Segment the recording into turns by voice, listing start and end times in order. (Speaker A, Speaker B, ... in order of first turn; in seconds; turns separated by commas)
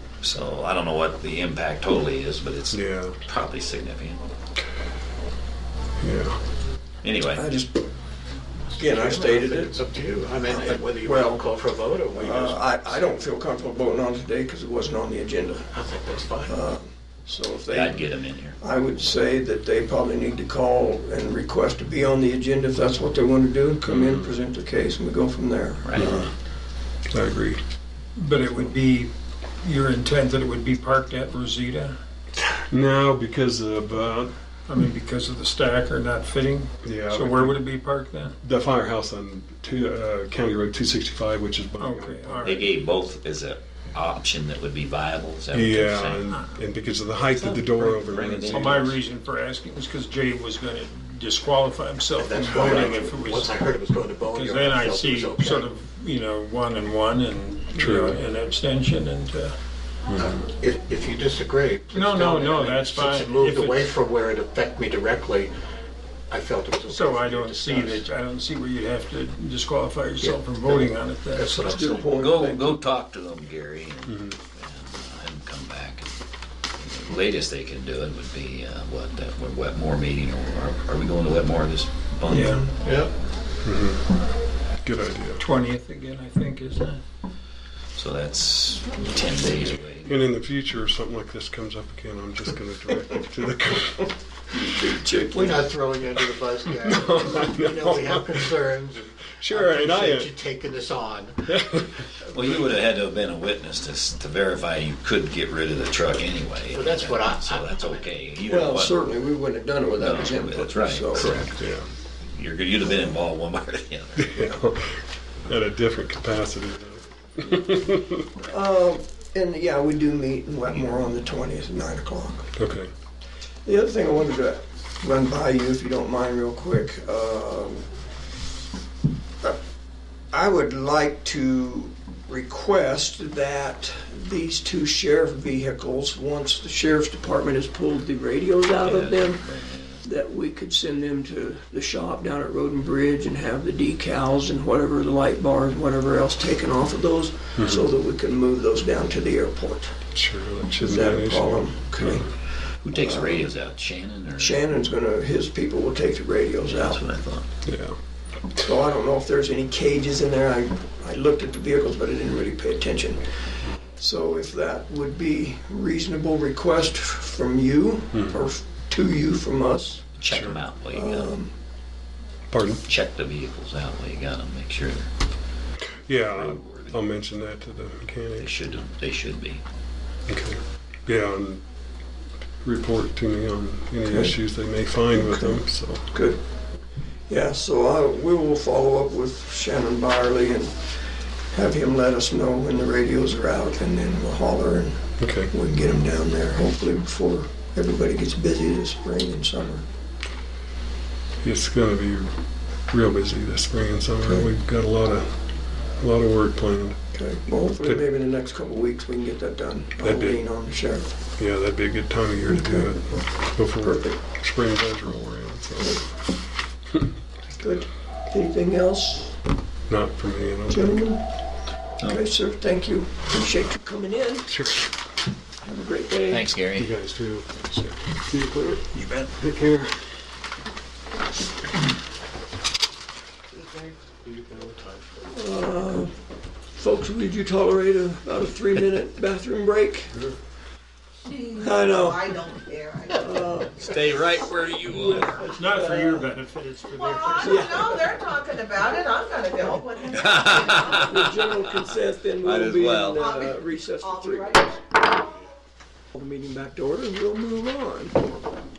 Speaker A: 0.2-4.2, Speaker B: 2.7-3.2, Speaker B: 6.0-6.4, Speaker A: 7.0-7.5, Speaker C: 7.3-7.8, Speaker D: 8.7-12.7, Speaker C: 8.8-9.8, Speaker C: 10.4-11.5, Speaker C: 12.1-15.8, Speaker D: 15.7-16.6, Speaker C: 16.4-26.3, Speaker A: 17.7-18.6, Speaker B: 23.9-24.3, Speaker A: 25.8-26.1, Speaker B: 26.0-26.3, Speaker B: 27.1-27.6, Speaker E: 28.2-29.1, Speaker E: 29.6-32.0, Speaker B: 32.7-34.3, Speaker E: 34.7-38.4, Speaker B: 36.8-37.6, Speaker B: 38.4-42.6, Speaker E: 41.8-42.7, Speaker A: 42.4-46.2, Speaker B: 45.5-48.9, Speaker E: 46.3-46.5, Speaker A: 47.3-49.0, Speaker E: 48.5-53.6, Speaker D: 52.1-55.7, Speaker E: 54.3-59.6, Speaker B: 57.7-58.2, Speaker B: 60.1-60.4, Speaker D: 60.2-65.5, Speaker E: 61.9-63.9, Speaker D: 66.3-68.1, Speaker E: 66.9-71.6, Speaker C: 70.2-70.8, Speaker D: 71.3-72.2, Speaker C: 71.5-72.7, Speaker A: 72.0-76.1, Speaker B: 74.1-74.4, Speaker A: 76.8-82.7, Speaker E: 82.3-82.7, Speaker D: 82.8-83.1, Speaker B: 83.6-84.1, Speaker B: 84.8-85.4, Speaker E: 85.4-87.0, Speaker A: 88.0-90.1, Speaker B: 90.1-94.6, Speaker C: 94.5-95.8, Speaker D: 95.3-101.4, Speaker B: 96.8-98.6, Speaker B: 99.4-100.3, Speaker B: 101.5-102.0, Speaker A: 102.3-109.1, Speaker D: 106.7-108.0, Speaker C: 108.5-111.3, Speaker A: 110.0-111.6, Speaker B: 111.2-111.9, Speaker A: 112.2-114.4, Speaker B: 114.2-118.3, Speaker C: 118.5-122.5, Speaker B: 122.5-122.9, Speaker C: 123.7-127.9, Speaker C: 130.3-139.5, Speaker A: 138.8-140.0, Speaker C: 140.0-149.9, Speaker B: 147.6-147.9, Speaker B: 150.1-152.3, Speaker C: 150.7-152.3, Speaker A: 152.8-154.6, Speaker C: 152.9-153.5, Speaker C: 154.4-157.0, Speaker A: 156.6-157.5, Speaker B: 157.7-158.0, Speaker C: 158.6-163.4, Speaker C: 164.0-170.1, Speaker A: 170.2-171.3, Speaker B: 170.3-170.6, Speaker C: 170.9-171.5, Speaker B: 172.5-172.8, Speaker A: 172.8-175.1, Speaker B: 176.1-178.5, Speaker A: 176.3-176.8, Speaker A: 178.4-179.6, Speaker B: 180.3-181.6, Speaker B: 182.6-186.1, Speaker C: 184.1-184.4, Speaker C: 185.1-186.4, Speaker C: 187.3-190.9, Speaker C: 191.5-199.8, Speaker B: 195.2-195.5, Speaker B: 201.4-202.4, Speaker B: 202.9-207.0, Speaker C: 207.1-211.1, Speaker B: 210.0-210.4, Speaker B: 211.4-216.1, Speaker C: 212.5-213.2, Speaker C: 213.8-214.2, Speaker C: 217.5-219.4, Speaker B: 219.9-221.0, Speaker C: 220.7-221.2, Speaker C: 222.0-224.5, Speaker B: 224.5-224.9, Speaker C: 225.6-226.5, Speaker A: 226.3-226.9, Speaker B: 226.8-230.2, Speaker F: 233.5-233.9, Speaker D: 234.2-235.1, Speaker C: 235.3-236.1, Speaker C: 236.8-240.2, Speaker F: 241.2-243.2, Speaker C: 241.6-242.4, Speaker C: 243.1-243.9, Speaker A: 243.8-245.6, Speaker C: 244.9-246.3, Speaker E: 245.4-247.6, Speaker F: 246.9-251.2, Speaker C: 247.4-248.2, Speaker A: 250.1-251.6, Speaker C: 250.9-254.8, Speaker A: 252.4-253.3, Speaker F: 253.2-254.7, Speaker C: 256.1-258.2